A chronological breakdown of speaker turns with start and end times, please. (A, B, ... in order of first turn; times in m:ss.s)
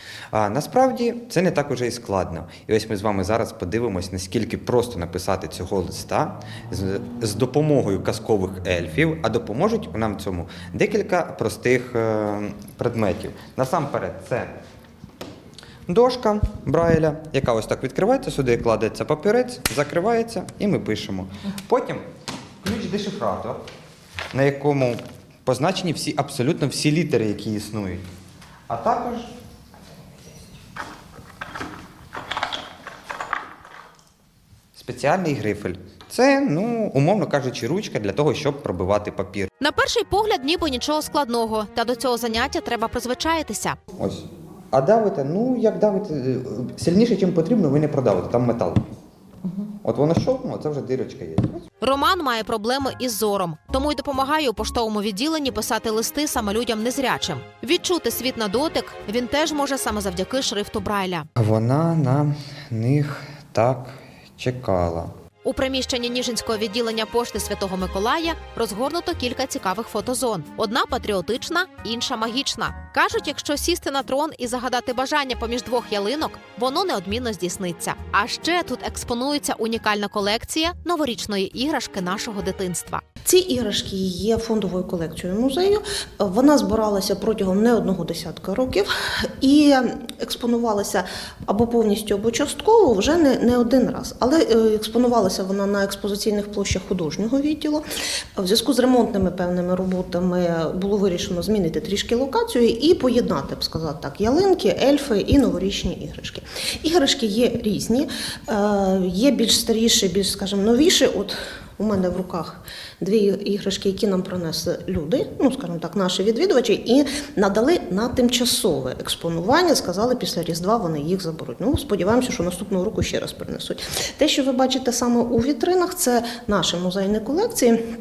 0:00.3-0:14.5 A
0:15.9-0:22.0 A
0:22.6-0:23.6 A
0:24.3-0:28.1 A
0:28.7-0:29.3 A
0:34.8-0:39.5 A
0:39.6-0:43.8 B
0:44.0-0:48.8 A
0:49.8-0:51.6 A
0:51.8-1:01.3 B
1:01.4-1:05.1 A
1:05.4-1:23.0 B
1:23.2-1:37.8 C
1:38.4-2:07.8 C